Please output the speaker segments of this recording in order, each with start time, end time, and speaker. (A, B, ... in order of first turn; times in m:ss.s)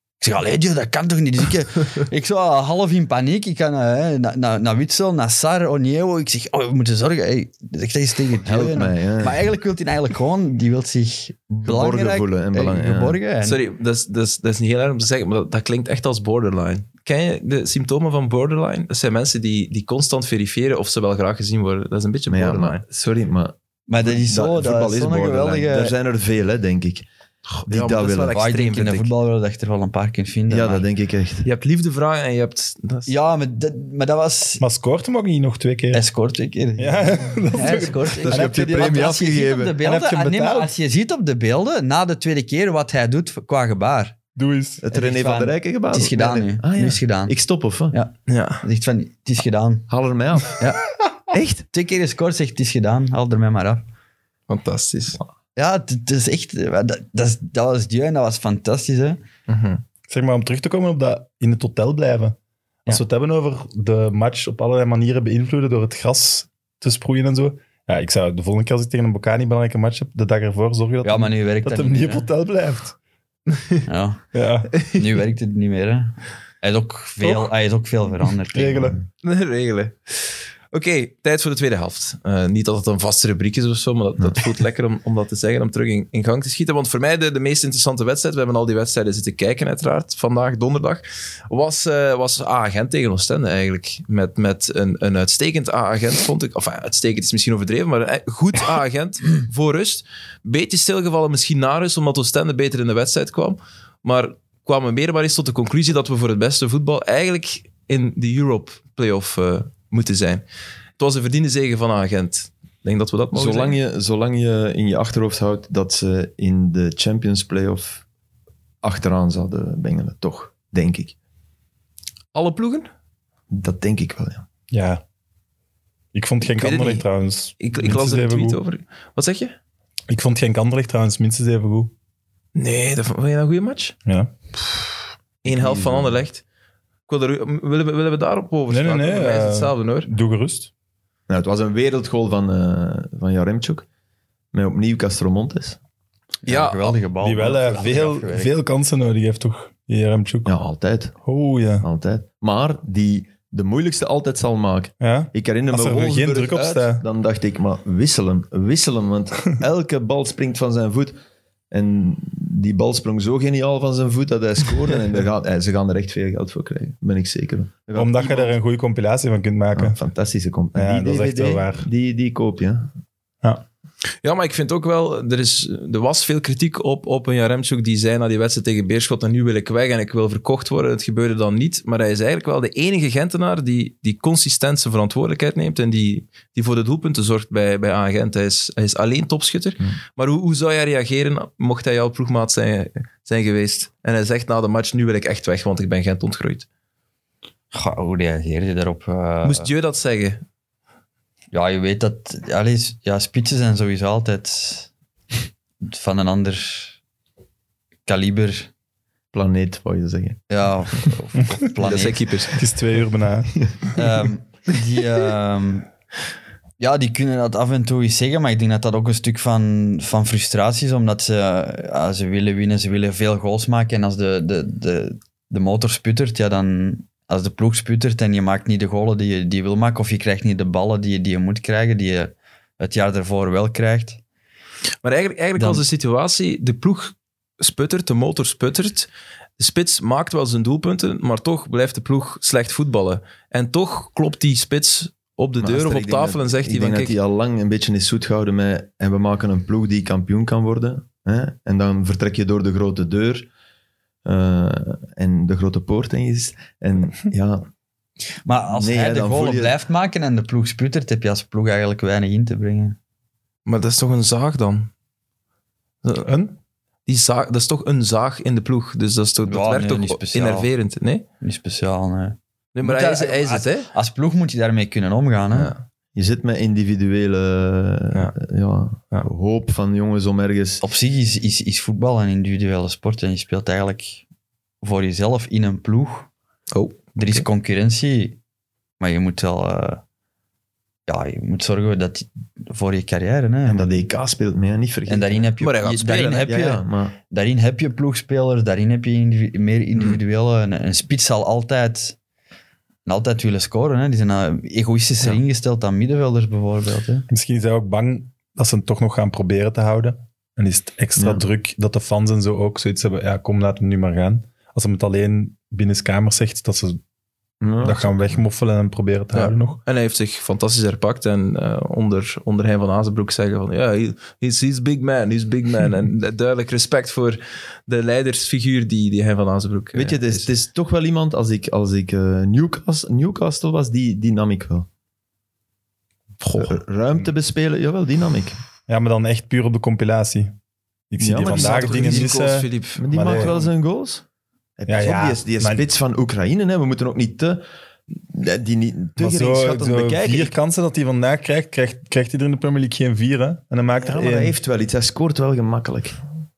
0:00.2-0:13.6 A
0:08.4-0:09.4 B
0:11.6-0:13.2 B
0:13.4-0:22.8 C
0:22.3-0:27.1 B
0:23.9-0:25.9 A
0:27.5-0:29.1 C
0:27.7-0:28.4 B
0:28.3-0:30.8 A
0:30.5-0:31.5 B
0:31.4-0:33.1 C
0:33.1-0:34.6 A
0:34.6-0:36.0 D
0:35.9-0:44.2 A
0:36.8-0:39.0 D
0:38.1-0:39.8 B
0:39.8-0:40.7 D
0:44.4-0:44.8 D
0:44.8-0:48.0 B
0:44.9-0:47.3 A
0:47.9-0:49.9 A
0:48.3-0:48.6 C
0:49.9-0:50.6 B
0:50.4-0:51.0 A
0:51.3-0:51.6 B
0:51.7-0:53.8 A
0:54.5-0:55.2 C
0:55.6-0:59.2 A
0:59.5-0:59.8 C
1:00.1-1:12.9 D
1:11.0-1:12.3 A
1:13.5-1:13.8 C
1:13.9-1:19.0 A
1:14.3-1:14.7 D
1:17.2-1:17.5 D
1:18.5-1:19.0 D
1:19.2-1:50.4 C
1:51.0-1:53.8 C
1:53.3-1:58.0 B
1:58.8-2:01.1 B
2:02.3-2:02.9 C
2:03.5-2:04.4 B
2:04.7-2:05.0 D
2:06.1-2:08.6 D
2:06.6-2:07.0 C
2:07.6-2:09.5 C
2:10.1-2:11.9 D
2:12.5-2:13.9 C
2:14.0-2:14.3 D
2:15.4-2:16.4 C
2:15.4-2:16.2 B
2:17.1-2:20.1 C
2:18.7-2:20.7 D
2:21.3-2:23.8 B
2:24.5-2:25.8 B
2:26.4-2:28.5 A
2:26.5-2:27.0 C
2:27.2-2:30.6 D
2:30.4-2:31.2 B
2:31.2-2:31.8 D
2:31.8-2:41.2 B
2:35.0-2:37.0 D
2:41.7-2:48.5 B
2:47.9-2:50.0 D
2:49.7-2:52.9 B
2:50.7-2:51.9 D
2:54.2-3:16.6 C
3:17.7-3:19.7 A
3:19.4-3:20.4 C
3:21.5-3:24.9 A
3:25.8-3:26.9 A
3:28.0-3:28.7 A
3:29.3-3:30.4 B
3:30.5-3:32.4 A
3:31.8-3:32.5 C
3:32.6-3:33.6 D
3:33.9-3:35.9 A
3:36.8-3:54.2 A
3:55.0-3:59.1 C
3:55.6-3:55.8 A
3:59.6-4:07.2 C
4:05.6-4:13.5 B
4:14.2-4:17.7 B
4:18.4-4:23.0 A
4:18.7-4:19.7 B
4:23.6-4:24.9 C
4:26.0-4:26.3 C
4:26.2-4:26.5 D
4:27.0-4:31.2 C
4:29.4-4:30.7 A
4:31.4-4:35.7 A
4:32.7-4:33.9 C
4:35.5-4:35.8 C
4:36.1-4:40.8 B
4:40.8-4:44.2 A
4:44.8-4:46.3 A
4:46.7-4:47.4 C
4:47.2-4:48.4 A
4:49.0-4:50.0 A
4:51.1-4:53.9 A
4:53.6-4:55.5 B
4:55.1-5:02.2 A
4:55.6-4:56.5 C
4:56.4-4:57.1 B
5:03.0-5:07.3 A
5:07.3-5:17.0 D
5:11.2-5:11.4 B
5:17.6-5:18.4 B
5:17.8-5:19.8 D
5:19.3-5:30.5 C
5:29.9-5:34.9 B
5:36.4-5:36.8 C
5:36.6-5:38.6 B
5:38.9-5:40.5 D
5:41.1-5:43.6 D
5:41.2-5:42.4 B
5:41.4-5:43.5 C
5:43.0-5:44.2 B
5:44.8-5:47.6 B
5:44.9-5:45.8 D
5:48.1-5:50.5 B
5:49.2-5:54.5 D
5:54.0-5:56.2 B